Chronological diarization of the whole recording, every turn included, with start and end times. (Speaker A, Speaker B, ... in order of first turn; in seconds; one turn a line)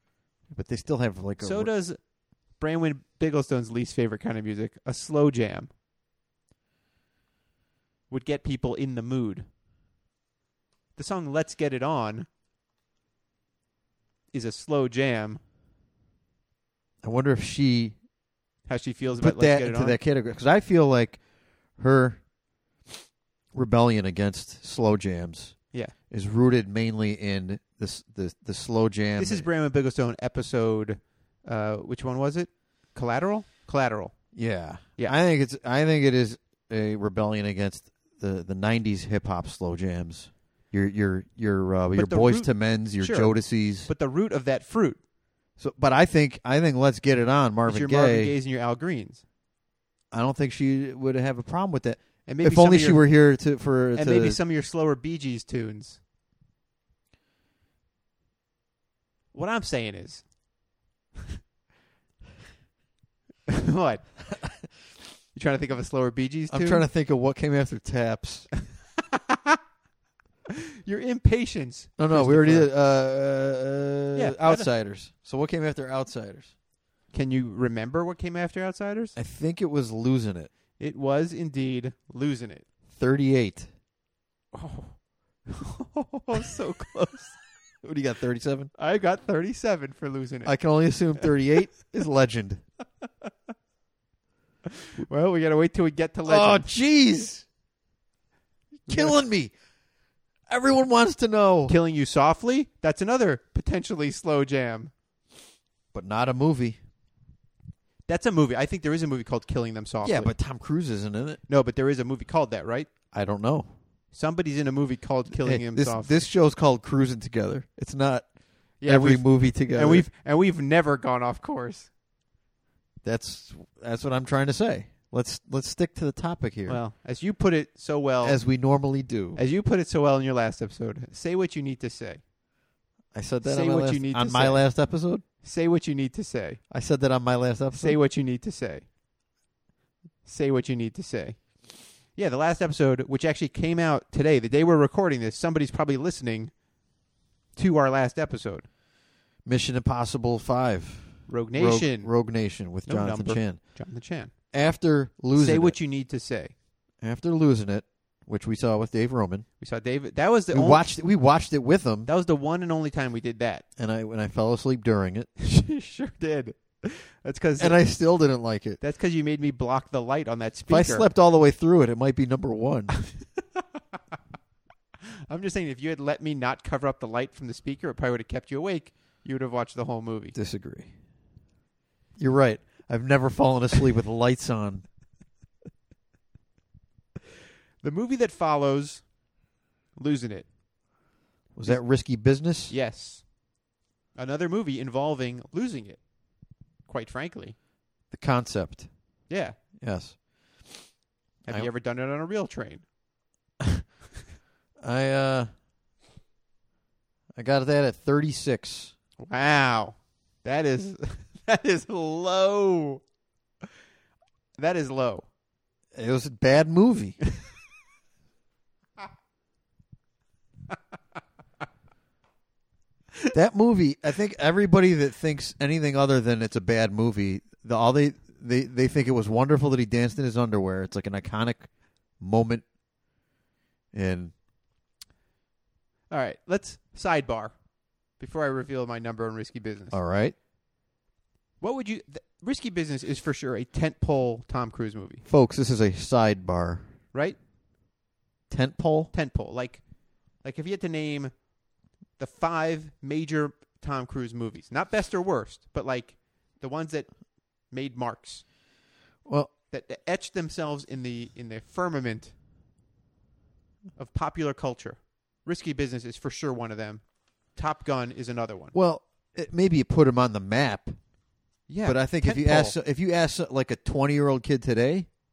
Speaker A: 0.5-1.7
Speaker B: 1.4-2.0
Speaker B: 2.6-5.7
Speaker B: 8.1-9.5
Speaker B: 10.9-12.3
Speaker B: 14.3-15.4
Speaker A: 17.0-18.0
Speaker B: 18.7-20.0
Speaker A: 19.2-21.2
Speaker A: 21.8-22.2
Speaker A: 23.5-29.5
Speaker B: 29.2-34.1
Speaker A: 34.3-43.9
Speaker B: 41.9-45.0
Speaker A: 45.6-48.3
Speaker B: 47.6-49.2
Speaker A: 50.1-54.4
Speaker B: 52.3-53.0
Speaker B: 53.9-56.0
Speaker B: 59.3-60.2
Speaker B: 63.5-64.1
Speaker B: 65.3-66.8
Speaker A: 66.5-68.5
Speaker B: 69.1-69.6
Speaker B: 70.5-72.7
Speaker A: 72.0-76.5
Speaker B: 74.1-74.7
Speaker B: 77.1-79.1
Speaker A: 79.2-80.5
Speaker B: 80.8-82.6
Speaker A: 82.9-83.7
Speaker B: 84.5-84.9
Speaker B: 85.5-87.4
Speaker A: 87.8-88.7
Speaker B: 88.8-90.5
Speaker A: 90.4-92.6
Speaker B: 95.0-96.7
Speaker A: 96.2-97.5
Speaker B: 98.9-99.2
Speaker A: 98.9-99.5
Speaker A: 100.5-101.7
Speaker B: 101.7-104.9
Speaker A: 105.9-106.8
Speaker B: 108.1-110.3
Speaker A: 110.0-111.4
Speaker B: 111.5-112.9
Speaker A: 113.1-113.7
Speaker B: 114.1-116.2
Speaker A: 115.3-118.2
Speaker B: 118.8-121.9
Speaker A: 118.8-120.1
Speaker A: 123.0-126.8
Speaker B: 126.7-128.4
Speaker A: 128.2-129.4
Speaker B: 129.3-132.2
Speaker A: 133.1-135.2
Speaker B: 133.4-134.7
Speaker B: 135.4-136.6
Speaker A: 136.7-138.0
Speaker B: 137.7-138.8
Speaker B: 140.2-141.5
Speaker B: 142.1-146.5
Speaker B: 147.6-148.7
Speaker A: 149.4-153.6
Speaker B: 151.3-152.1
Speaker B: 152.8-154.3
Speaker A: 154.5-155.8
Speaker B: 155.3-156.5
Speaker A: 157.0-159.4
Speaker B: 159.6-160.9
Speaker A: 160.5-162.1
Speaker B: 162.1-163.6
Speaker A: 163.8-165.3
Speaker B: 165.4-167.8
Speaker A: 167.6-168.8
Speaker B: 168.8-171.1
Speaker A: 170.7-172.9
Speaker B: 175.3-180.3
Speaker A: 180.3-180.9
Speaker A: 182.2-184.8
Speaker B: 187.8-189.1
Speaker B: 189.9-190.4
Speaker A: 191.5-192.7
Speaker B: 192.7-193.2
Speaker B: 194.2-196.0
Speaker B: 196.8-197.5
Speaker A: 198.1-198.9
Speaker B: 199.3-199.6
Speaker A: 199.8-200.7
Speaker B: 201.5-202.8
Speaker A: 204.8-205.5
Speaker A: 207.3-208.9
Speaker B: 209.2-213.0
Speaker B: 214.6-215.2
Speaker A: 215.9-217.2
Speaker A: 223.3-231.7
Speaker A: 232.2-232.6
Speaker A: 233.9-234.3
Speaker B: 236.1-237.5
Speaker B: 238.2-240.0
Speaker A: 239.9-240.3
Speaker B: 241.6-245.2
Speaker A: 245.2-246.9
Speaker A: 248.5-249.1
Speaker B: 249.1-249.8
Speaker B: 250.4-251.3
Speaker B: 252.2-257.1
Speaker B: 257.7-258.4
Speaker A: 259.2-259.5
Speaker B: 259.7-262.3
Speaker B: 264.0-267.0
Speaker B: 267.5-268.7
Speaker A: 268.7-271.0
Speaker B: 271.7-272.8
Speaker A: 271.8-275.1